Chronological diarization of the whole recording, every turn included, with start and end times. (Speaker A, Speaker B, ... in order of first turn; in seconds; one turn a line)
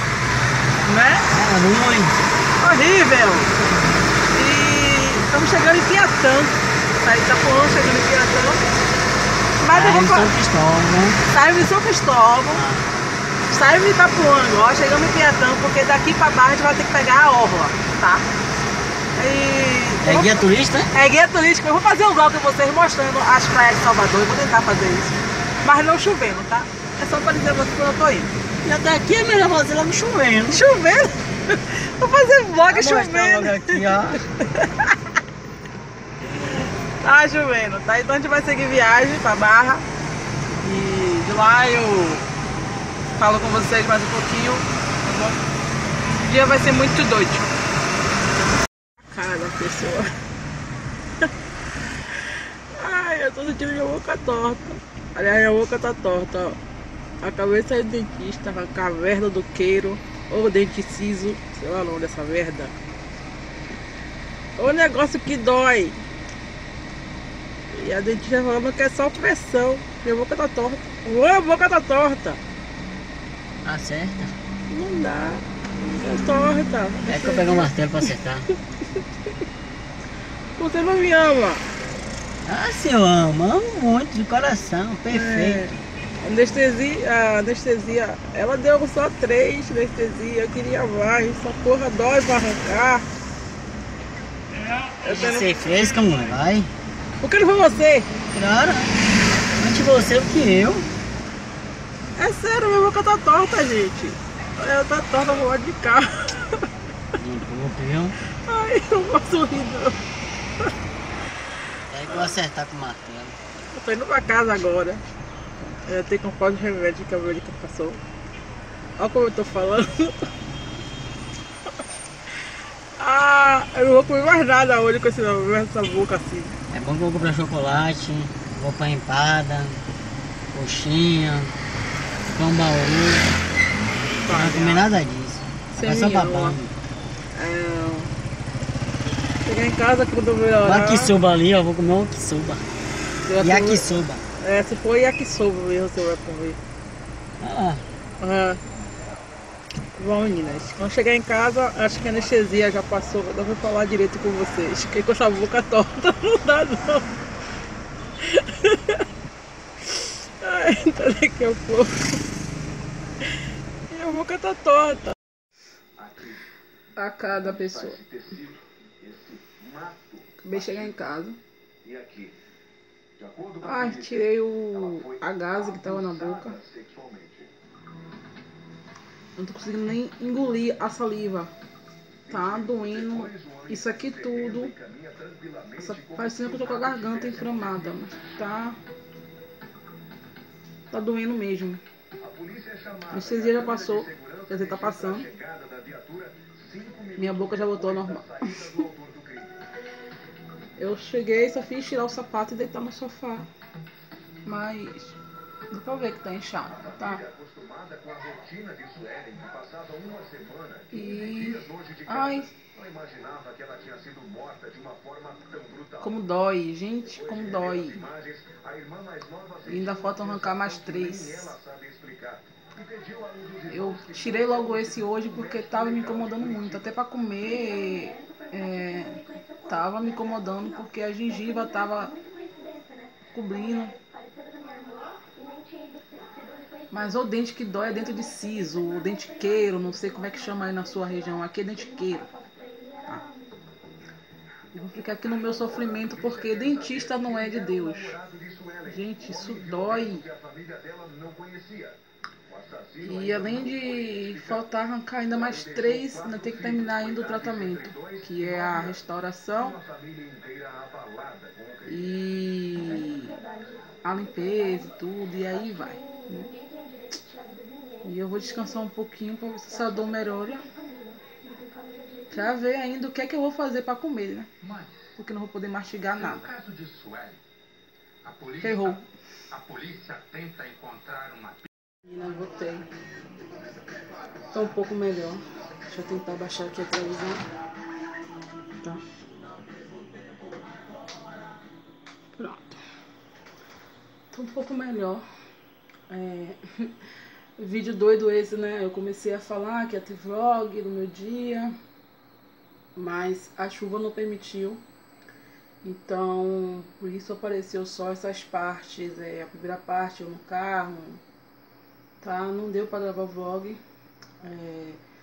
Speaker A: 0.8-1.3
Speaker B: 1.3-2.2
Speaker A: 2.6-3.6
Speaker A: 4.3-8.6
Speaker A: 9.6-10.3
Speaker B: 9.7-11.2
Speaker A: 11.3-12.7
Speaker B: 12.5-13.0
Speaker A: 13.5-18.2
Speaker A: 19.2-20.4
Speaker B: 20.0-20.9
Speaker A: 20.9-28.3
Speaker B: 28.6-30.6
Speaker A: 30.5-35.0
Speaker B: 32.7-34.2
Speaker A: 37.0-39.8
Speaker A: 40.6-42.2
Speaker A: 43.2-45.4
Speaker A: 46.2-47.5
Speaker A: 49.0-50.1
Speaker A: 52.7-56.6
Speaker A: 57.2-62.8
Speaker A: 64.6-66.0
Speaker A: 67.7-72.4
Speaker B: 73.6-74.3
Speaker A: 74.7-75.4
Speaker A: 76.0-77.7
Speaker B: 77.1-78.5
Speaker A: 80.6-81.6
Speaker B: 82.5-85.7
Speaker A: 85.1-93.0
Speaker A: 95.0-95.5
Speaker B: 95.0-96.7
Speaker A: 97.2-98.1
Speaker B: 98.3-99.0
Speaker B: 99.6-100.9
Speaker A: 102.2-106.7
Speaker B: 107.2-108.2
Speaker A: 108.5-110.0
Speaker B: 111.9-113.4
Speaker A: 113.7-115.0
Speaker A: 115.8-118.0
Speaker A: 119.0-120.3
Speaker A: 123.0-126.5
Speaker B: 126.7-129.8
Speaker B: 130.5-131.6
Speaker B: 132.3-133.3
Speaker A: 134.3-134.9
Speaker B: 134.3-136.7
Speaker A: 135.7-136.6
Speaker A: 137.3-138.1
Speaker A: 139.4-141.1
Speaker B: 140.6-142.7
Speaker A: 143.2-143.8
Speaker B: 143.4-144.2
Speaker A: 144.4-146.6
Speaker B: 147.4-147.8
Speaker A: 148.2-148.6
Speaker A: 150.0-157.0
Speaker A: 158.2-159.0
Speaker A: 159.9-162.2
Speaker A: 163.9-165.2
Speaker A: 167.0-168.1
Speaker A: 170.4-171.4
Speaker A: 173.6-176.6
Speaker A: 179.4-181.5
Speaker A: 182.3-184.8
Speaker A: 185.8-188.8
Speaker A: 190.9-191.8
Speaker A: 193.1-195.3
Speaker A: 197.2-198.9
Speaker A: 200.8-203.5
Speaker A: 204.4-205.2
Speaker A: 205.7-207.3
Speaker A: 210.9-212.5
Speaker A: 216.0-218.1
Speaker A: 219.7-221.6
Speaker A: 223.7-232.2
Speaker A: 233.3-234.0
Speaker A: 236.9-242.3
Speaker A: 244.7-248.2
Speaker A: 248.8-250.3
Speaker A: 253.0-259.8
Speaker A: 261.9-263.4
Speaker A: 264.0-266.5
Speaker A: 268.0-270.6
Speaker A: 272.3-274.5
Speaker A: 275.2-276.5
Speaker A: 278.6-279.0
Speaker A: 282.1-282.9
Speaker A: 284.5-287.4
Speaker A: 292.4-292.7
Speaker A: 294.3-295.2
Speaker A: 296.1-296.9
Speaker A: 297.6-301.7
Speaker A: 303.0-304.8
Speaker A: 305.8-311.2
Speaker A: 312.2-313.8
Speaker A: 314.4-315.0